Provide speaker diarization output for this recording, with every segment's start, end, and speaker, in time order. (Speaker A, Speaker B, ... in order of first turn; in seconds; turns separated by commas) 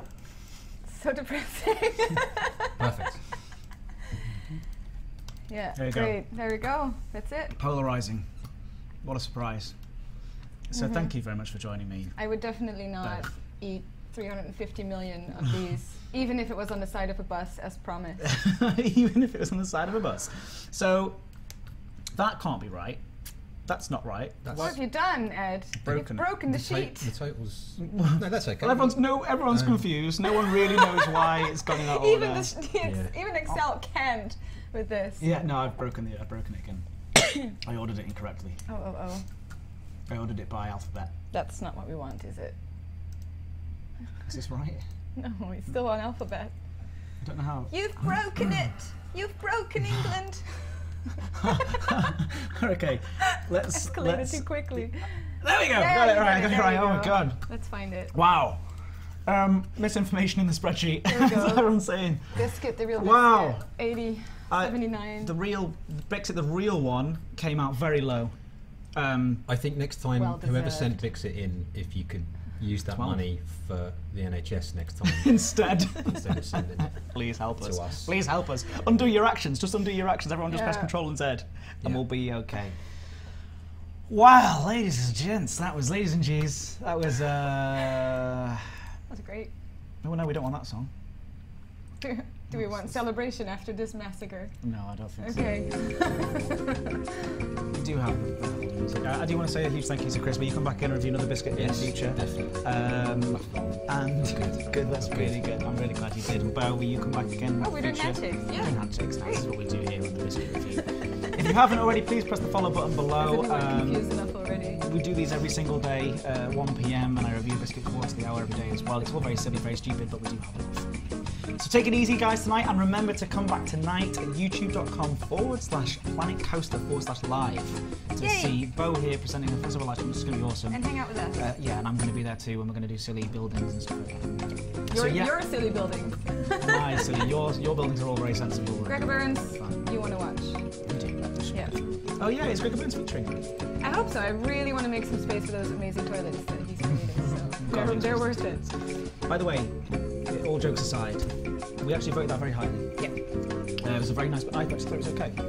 Speaker A: 0.8-2.7, Speaker B: 2.8-3.2, Speaker A: 5.5-7.5, Speaker C: 5.7-6.2, Speaker C: 7.5-8.3, Speaker C: 9.0-9.7, Speaker C: 10.7-12.2, Speaker A: 10.8-11.1, Speaker A: 12.2-18.2, Speaker C: 13.0-13.3, Speaker C: 18.2-21.2, Speaker C: 22.1-23.0, Speaker C: 23.7-24.8, Speaker B: 24.4-24.7, Speaker A: 24.5-27.1, Speaker C: 25.8-26.3, Speaker B: 25.9-29.9, Speaker C: 27.8-32.7, Speaker A: 30.9-35.2, Speaker B: 32.8-33.1, Speaker C: 35.2-36.9, Speaker C: 37.5-38.6, Speaker A: 38.7-39.2, Speaker C: 40.1-41.1, Speaker A: 41.3-42.6, Speaker C: 44.2-44.9, Speaker A: 45.2-46.5, Speaker C: 47.2-48.6, Speaker A: 47.7-51.9, Speaker C: 51.4-54.9, Speaker A: 53.7-58.1, Speaker C: 55.4-57.4, Speaker C: 58.1-63.7, Speaker A: 61.1-61.7, Speaker A: 62.3-65.3, Speaker C: 64.5-68.4, Speaker C: 68.9-69.5, Speaker B: 69.5-78.2, Speaker A: 70.1-71.0, Speaker C: 72.9-73.2, Speaker C: 75.1-82.8, Speaker A: 80.5-80.9, Speaker C: 84.1-88.8, Speaker A: 89.1-89.5, Speaker C: 90.0-90.9, Speaker A: 92.0-94.6, Speaker C: 92.5-93.0, Speaker C: 94.6-95.7, Speaker A: 95.2-96.8, Speaker C: 97.7-114.1, Speaker B: 101.5-105.5, Speaker A: 107.6-109.4, Speaker A: 113.2-114.8, Speaker C: 114.8-135.4, Speaker A: 128.2-128.6, Speaker A: 130.7-131.4, Speaker A: 134.9-137.1, Speaker C: 136.6-139.8, Speaker A: 138.9-140.6, Speaker C: 140.9-143.5, Speaker A: 143.8-148.7, Speaker C: 147.6-153.1, Speaker C: 153.8-155.4